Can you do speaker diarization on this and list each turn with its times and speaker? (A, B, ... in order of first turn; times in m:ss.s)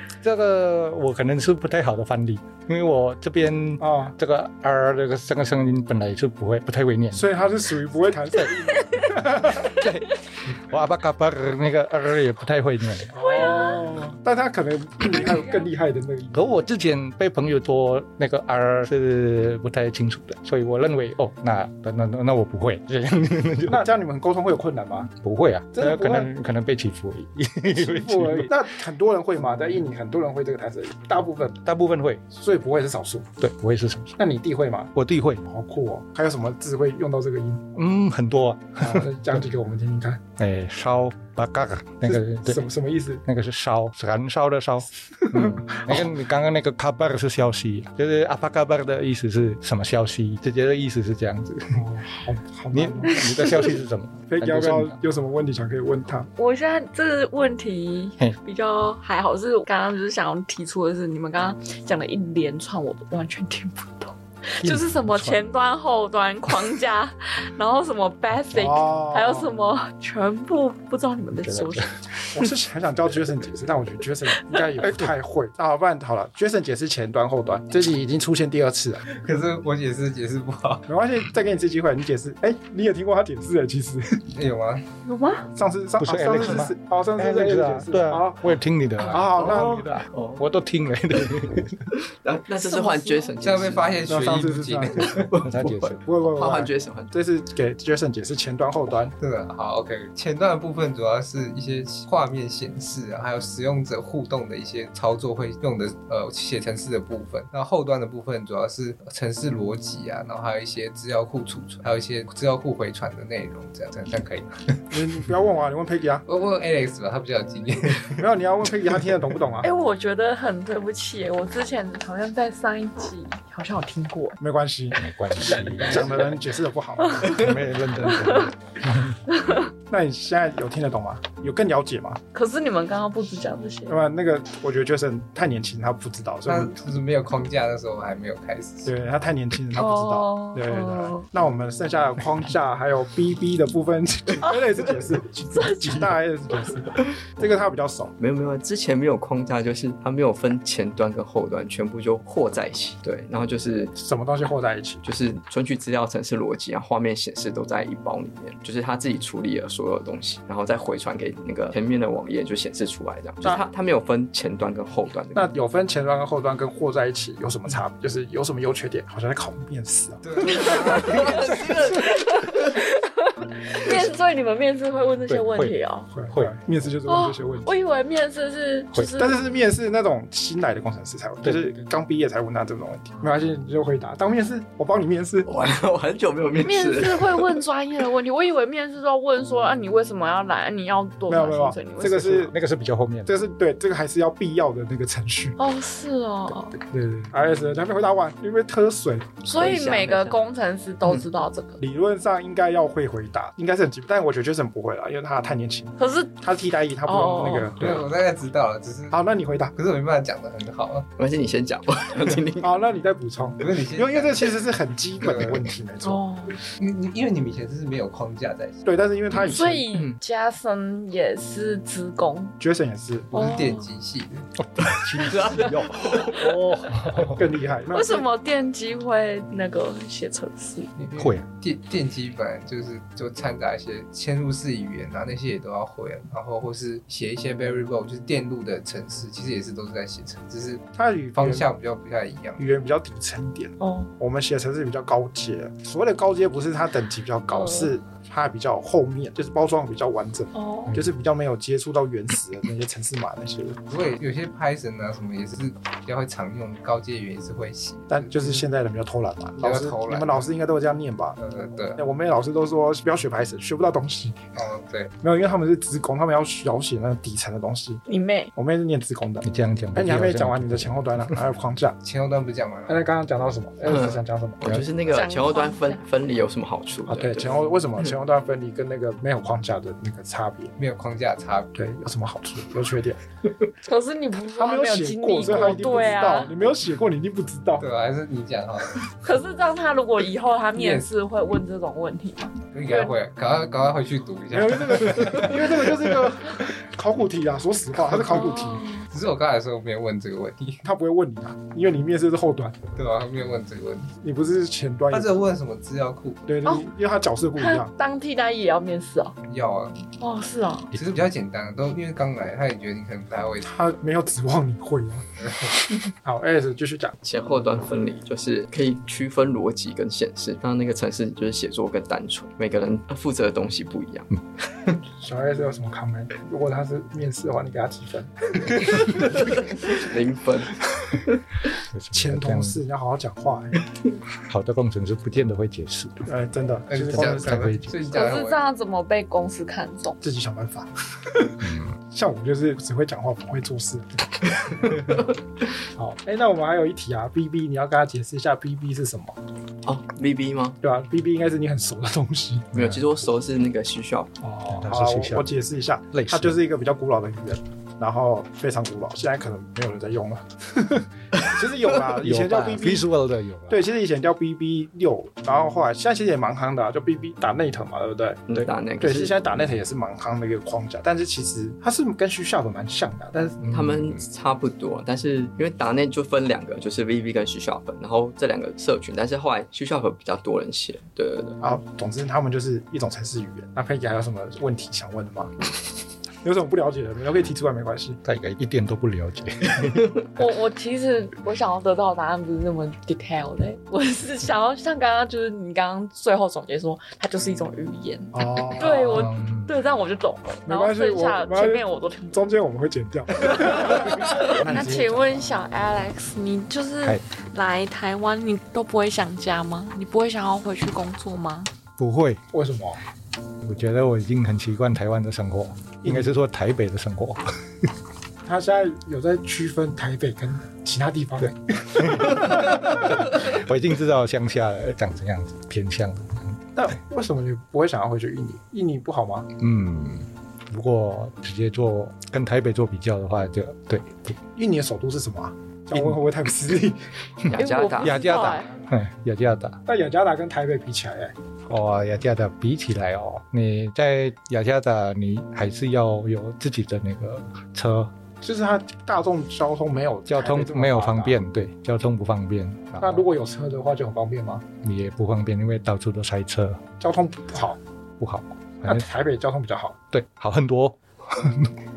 0:00.2-0:07.3 A
0:03.8-0:04.2 B
0:07.1-0:09.8 B
0:09.4-0:13.2 A
0:13.1-0:16.4 B
0:13.2-0:13.9 C
0:15.1-0:15.7 C
0:16.3-0:23.8 A
0:23.7-0:25.1 B
0:25.2-0:28.6 A
0:25.7-0:26.3 B
0:27.7-0:31.6 B
0:31.6-0:32.2 A
0:32.3-0:33.3 B
0:33.4-0:34.2 A
0:34.2-0:34.9 B
0:35.0-0:35.5 A
0:35.5-0:37.6 B
0:37.8-0:39.4 A
0:38.8-0:40.2 B
0:40.4-0:42.7 A
0:42.1-0:43.2 B
0:43.2-0:51.8 A
0:45.2-0:46.1 B
0:51.7-0:53.3 B
0:52.7-0:55.0 A
0:53.2-0:53.6 C
0:54.3-0:56.3 B
0:56.4-1:12.0 C
1:04.6-1:05.4 B
1:08.5-1:09.5 B
1:11.4-1:12.2 A
1:12.3-1:19.0 B
1:19.1-1:20.9 D
1:20.9-1:24.2 B
1:24.3-1:24.9 D
1:25.0-1:25.5 C
1:25.6-1:28.5 B
1:26.0-1:31.8 A
1:29.0-1:29.8 B
1:29.4-1:30.4 E
1:32.0-1:34.1 E
1:32.5-1:33.4 C
1:33.4-1:35.3 D
1:34.1-1:35.3 B
1:35.1-1:37.1 E
1:35.4-1:36.0 A
1:36.0-1:39.1 B
1:39.2-1:54.8 D
1:54.9-1:56.2 B
1:56.3-1:58.2 D
1:58.2-1:59.7 B
1:59.6-2:04.4 C
2:04.4-2:07.5 B
2:04.9-2:06.3 A
2:07.2-2:09.2 A
2:08.1-2:08.5 C
2:09.3-2:09.6 C
2:09.9-2:12.2 B
2:12.3-2:14.0 C
2:13.9-2:16.8 B
2:16.5-2:18.9 D
2:18.8-2:28.1 B
2:19.7-2:21.3 C
2:25.5-2:26.2 C
2:28.2-2:33.9 E
2:34.0-2:35.0 B
2:35.0-2:45.5 E
2:45.3-2:52.0 B
2:50.2-2:51.9 D
2:51.0-2:52.6 E
2:51.9-2:56.1 C
2:55.3-2:55.8 A
2:56.1-2:57.7 B
2:56.3-2:56.6 A
2:57.1-2:59.4 C
2:59.2-3:05.5 B
3:01.4-3:01.8 A
3:05.5-3:07.6 E
3:06.6-3:12.4 C
3:11.3-3:12.5 B
3:12.1-3:13.4 A
3:13.3-3:15.6 B
3:15.6-3:16.8 C
3:16.9-3:19.4 B
3:19.4-3:21.8 C
3:19.5-3:20.4 E
3:21.8-3:28.0 B
3:26.0-3:26.4 C
3:27.1-3:27.7 C
3:27.8-3:31.1 D
3:29.1-3:29.7 B
3:31.2-3:32.8 E
3:32.6-3:36.2 B
3:33.6-3:34.6 D
3:35.2-3:35.6 D
3:36.0-3:36.6 C
3:36.8-3:38.8 D
3:38.8-3:39.8 B
3:39.5-3:42.6 C
3:42.6-3:43.3 B
3:43.3-3:44.5 D
3:43.3-3:43.9 C
3:44.6-3:47.5 A
3:45.2-3:46.3 E
3:47.2-3:48.2 B
3:47.9-3:50.9 C
3:51.0-4:02.6 D
3:51.1-3:51.5 A
4:01.0-4:01.7 B
4:02.6-4:13.8 B
4:03.8-4:04.1 C
4:07.5-4:07.9 C
4:10.5-4:11.0 C
4:13.9-4:18.6 D
4:18.1-4:21.4 B
4:19.6-4:20.5 D
4:21.4-4:22.0 D
4:22.0-4:24.4 B
4:24.5-4:25.1 D
4:25.2-4:28.0 B
4:28.1-4:28.5 C
4:28.6-4:32.0 B
4:29.4-4:31.3 A
4:32.0-4:33.2 D
4:32.9-4:34.9 B
4:33.9-4:37.7 E
4:35.1-4:36.1 C
4:37.1-4:40.7 B
4:40.8-4:41.7 D
4:41.8-4:43.2 B
4:43.8-4:46.5 C
4:44.5-4:47.9 B
4:47.8-4:49.1 D
4:49.2-4:53.1 C
4:50.8-4:51.1 D
4:52.7-4:56.2 D
4:54.5-4:58.8 B
4:58.2-4:59.1 C
4:59.1-5:00.8 D
5:00.8-5:02.8 B
5:03.0-5:04.1 D
5:04.2-5:05.4 B
5:05.1-5:06.5 D
5:06.5-5:07.9 B
5:07.6-5:09.3 C
5:09.5-5:10.1 D
5:10.2-5:10.9 C
5:10.9-5:13.7 D
5:13.6-5:15.3 B
5:16.1-5:17.2 B
5:17.2-5:24.3 E
5:25.0-5:30.0 B
5:29.2-5:31.4 E
5:31.9-5:32.8 A
5:32.1-5:33.8 B
5:34.5-5:36.3 A
5:36.3-5:37.8 B
5:36.9-5:38.6 D
5:37.1-5:38.0 A
5:38.1-5:40.2 C
5:40.2-5:45.2 B
5:41.6-5:42.0 A
5:46.0-5:49.4 B
5:49.8-5:50.8 E
5:50.8-5:52.7 B
5:52.7-5:54.3 E
5:52.8-5:53.0 A
5:54.4-6:03.1 B
5:54.7-5:55.6 A
5:56.1-5:56.6 A
6:02.2-6:03.8 A
6:03.7-6:08.5 B
6:08.5-6:09.4 E
6:09.0-6:13.6 B
6:13.6-6:14.3 A
6:13.7-6:21.6 E
6:21.6-6:25.6 B
6:26.4-6:28.2 B
6:28.2-6:30.1 A
6:30.4-6:42.5 C
6:38.3-6:39.3 B
6:38.9-6:39.7 A
6:40.7-6:45.5 B
6:43.5-6:51.7 C
6:52.0-6:52.4 A
6:52.5-6:53.0 B
6:53.6-6:57.4 A
6:56.0-6:56.3 B
6:58.4-7:03.2 B
7:02.0-7:06.6 A
7:06.8-7:09.5 B
7:09.6-7:14.4 A
7:14.6-7:17.1 B
7:15.9-7:16.2 A
7:17.5-7:18.2 E
7:17.5-7:18.7 C
7:18.0-7:19.8 A
7:19.9-7:21.4 B
7:21.7-7:28.1 A
7:28.4-7:31.4 B
7:30.3-7:33.3 A
7:33.0-7:34.7 B
7:34.8-7:36.8 A
7:37.0-7:37.8 B
7:38.2-7:39.1 A
7:38.9-7:40.0 B
7:40.1-7:41.7 A